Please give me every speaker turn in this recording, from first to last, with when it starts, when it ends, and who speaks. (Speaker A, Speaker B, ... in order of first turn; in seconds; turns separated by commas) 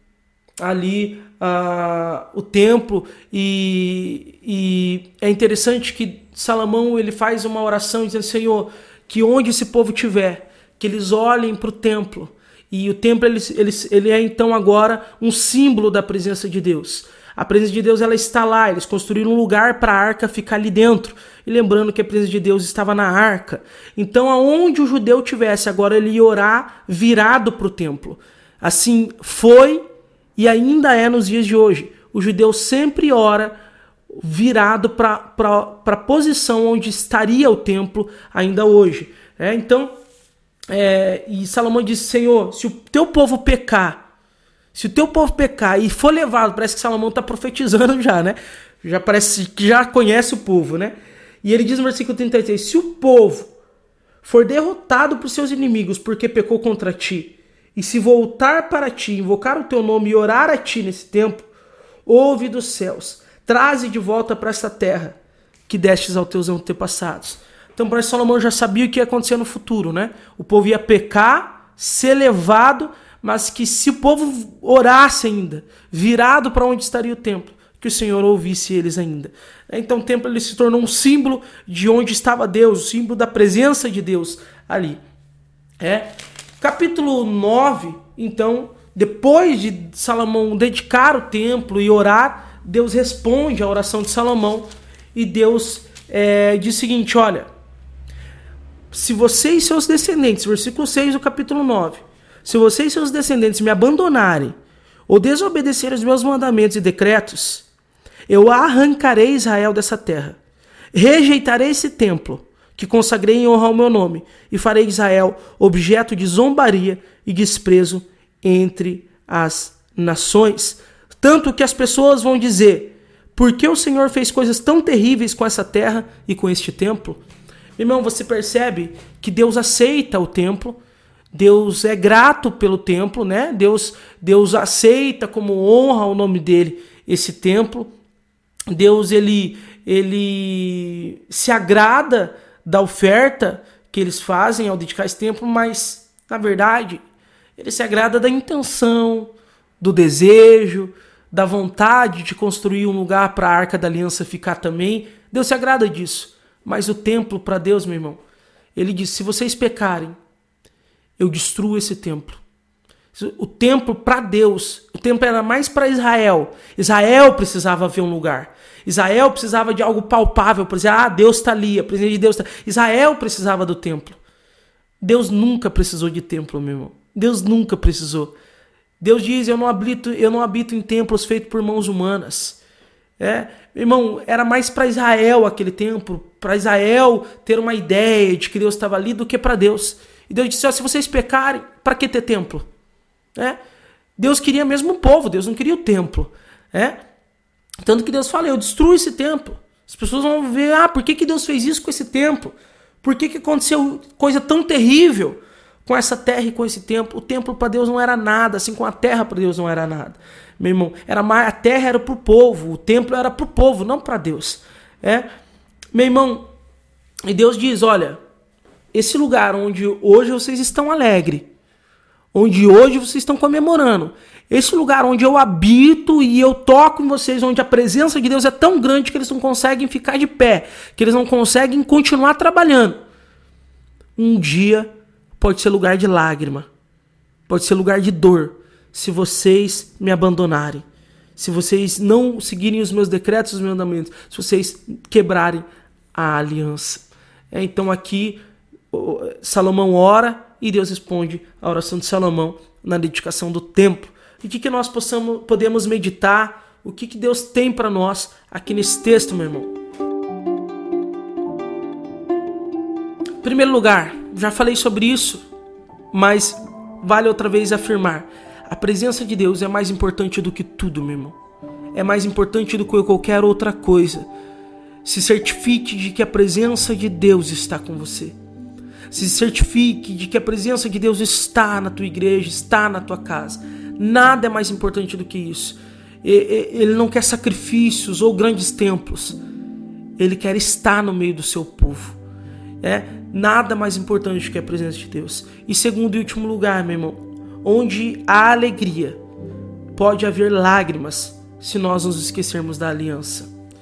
Speaker A: 0.6-29.8, Speaker A: 30.4-33.6, Speaker A: 34.1-39.9, Speaker A: 40.7-44.0, Speaker A: 44.7-53.5, Speaker A: 54.2-61.5, Speaker A: 62.1-85.0, Speaker A: 85.8-97.5, Speaker A: 98.9-104.5, Speaker A: 105.1-107.7, Speaker A: 108.3-110.4, Speaker A: 110.9-127.2, Speaker A: 127.8-130.8, Speaker A: 131.3-137.9, Speaker A: 138.7-147.0, Speaker A: 147.6-158.2, Speaker A: 158.8-160.2, Speaker A: 161.2-162.4, Speaker A: 163.1-174.2, Speaker A: 175.0-178.3, Speaker A: 179.0-182.6, Speaker A: 183.2-192.7, Speaker A: 194.2-197.0, Speaker A: 197.8-215.3, Speaker A: 215.9-216.5, Speaker A: 217.2-218.2, Speaker A: 218.9-221.5, Speaker A: 222.3-233.0, Speaker A: 234.2-236.7, Speaker A: 237.5-240.8, Speaker A: 241.4-248.4, Speaker A: 248.9-259.7, Speaker A: 263.4-265.4, Speaker A: 266.1-271.4, Speaker A: 271.9-274.3, Speaker A: 275.1-278.4, Speaker A: 279.1-289.4, Speaker A: 290.2-292.2, Speaker A: 292.8-299.2, Speaker A: 299.9-303.5